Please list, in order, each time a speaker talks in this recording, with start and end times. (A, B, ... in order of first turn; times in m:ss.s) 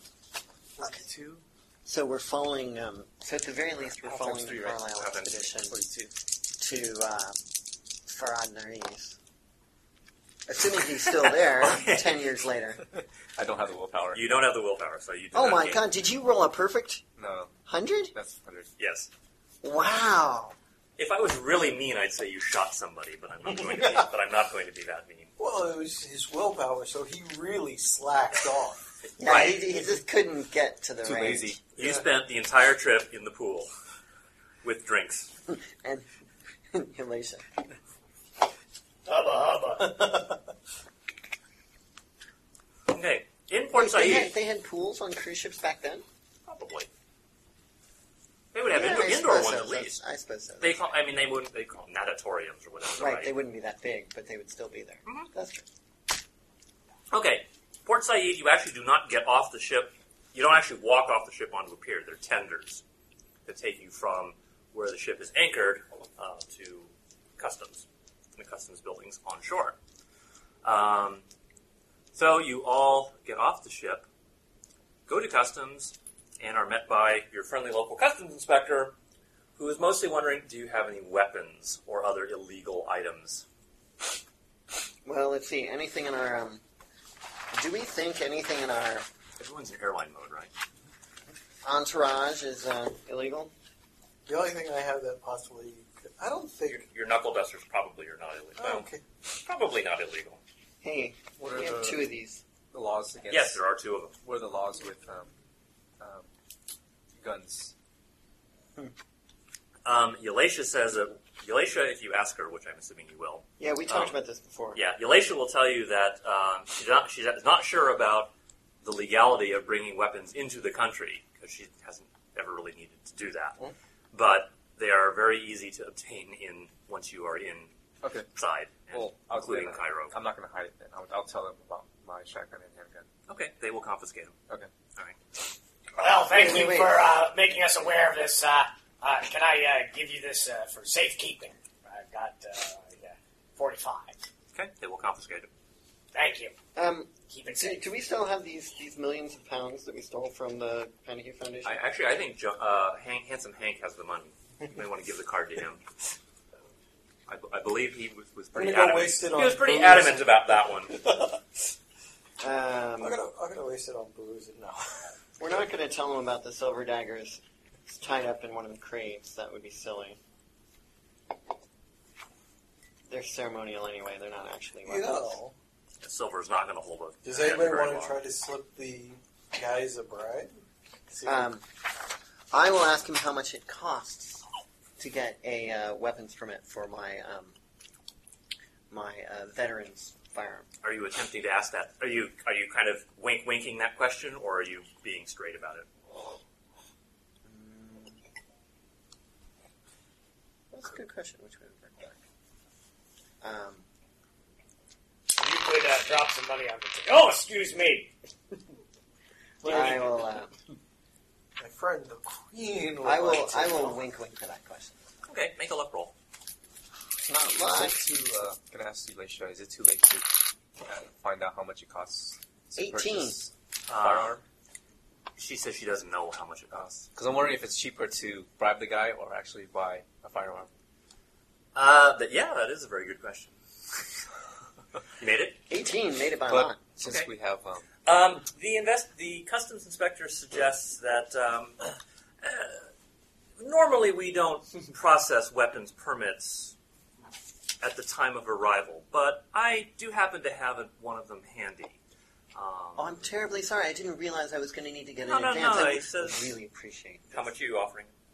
0:00.8-0:01.4 A
0:01.8-0:05.8 B
0:04.0-0:05.0 A
0:05.0-0:05.5 C
0:05.7-0:06.1 A
0:06.6-0:07.4 B
0:08.1-0:09.2 B
0:10.5-0:12.8 B
0:11.2-0:12.2 C
0:13.4-0:14.4 A
0:14.1-0:15.8 C
0:15.3-0:17.0 B
0:17.2-0:17.6 A
0:17.7-0:18.1 B
0:18.1-0:18.7 A
0:18.8-0:19.1 C
0:19.6-0:20.6 B
0:21.0-0:25.3 C
0:23.6-0:24.0 D
0:25.4-0:28.8 D
0:29.0-0:29.7 C
0:29.2-0:31.5 B
0:31.0-0:31.6 A
0:31.8-0:33.7 C
0:31.8-0:32.0 D
0:34.6-0:35.3 C
0:35.5-0:36.1 B
0:36.7-0:37.4 B
0:39.0-0:40.1 E
0:40.0-0:40.3 D
0:42.9-0:44.3 C
0:43.7-0:46.0 B
0:46.5-0:46.9 C
0:48.5-0:50.0 C
0:48.7-0:50.8 B
0:50.6-0:53.3 C
0:53.0-0:55.6 B
0:57.1-1:02.8 C
1:03.5-1:07.9 C
1:08.4-1:09.8 C
1:10.6-1:11.2 C
1:12.1-1:14.1 C
1:15.1-1:19.0 C
1:19.6-1:23.4 C
1:25.0-1:26.6 B
1:27.5-1:29.1 B
1:29.4-1:30.5 C
1:31.6-1:33.5 B
1:34.3-1:36.9 D
1:36.9-1:40.4 C
1:38.6-1:39.0 D
1:40.8-1:42.4 B
1:41.4-1:42.1 A
1:42.7-1:43.6 A
1:43.3-1:44.2 C
1:44.2-1:45.3 A
1:46.0-1:46.3 A
1:47.2-1:47.7 A
1:49.8-1:54.2 C
1:53.6-1:54.8 B
1:54.7-1:58.3 C
1:58.8-2:03.6 C
2:04.1-2:07.7 C
2:08.0-2:08.3 A
2:08.3-2:10.2 C
2:08.9-2:13.1 A
2:13.3-2:14.3 C
2:16.0-2:24.2 E
2:16.3-2:16.9 B
2:24.5-2:25.5 C
2:26.1-2:26.5 E
2:26.8-2:31.8 B
2:27.3-2:27.8 E
2:31.6-2:35.8 C
2:37.3-2:41.0 C
2:38.5-2:41.4 D
2:42.4-2:43.2 B
2:43.0-2:45.2 D
2:45.4-2:50.2 B
2:53.1-2:55.4 B
2:54.9-2:55.5 D
2:56.0-2:58.2 C
2:57.2-3:00.5 D
3:01.1-3:01.5 D
3:01.3-3:01.6 B
3:02.5-3:04.4 B
3:05.0-3:07.5 B
3:08.9-3:10.7 B
3:10.8-3:15.9 C
3:17.4-3:18.2 B
3:20.7-3:22.2 B
3:23.4-3:23.9 B
3:25.4-3:28.1 E
3:29.6-3:30.2 D
3:29.6-3:30.5 B
3:31.6-3:34.0 D
3:33.0-3:35.0 B
3:35.2-3:36.1 C
3:37.2-3:38.1 B
3:37.6-3:44.4 A
3:42.8-3:43.4 B
3:43.9-3:44.4 C
3:45.4-3:47.0 C
3:46.7-3:50.7 A
3:51.8-3:54.1 C
3:55.2-3:55.6 C
3:55.7-3:57.0 B
3:56.5-3:57.9 A
3:57.0-3:57.3 C
3:58.0-4:01.8 C
4:02.4-4:02.9 C
4:03.6-4:06.7 C
4:07.8-4:12.0 C
4:12.6-4:13.3 C
4:13.0-4:17.5 B
4:15.2-4:16.6 C
4:17.3-4:18.1 C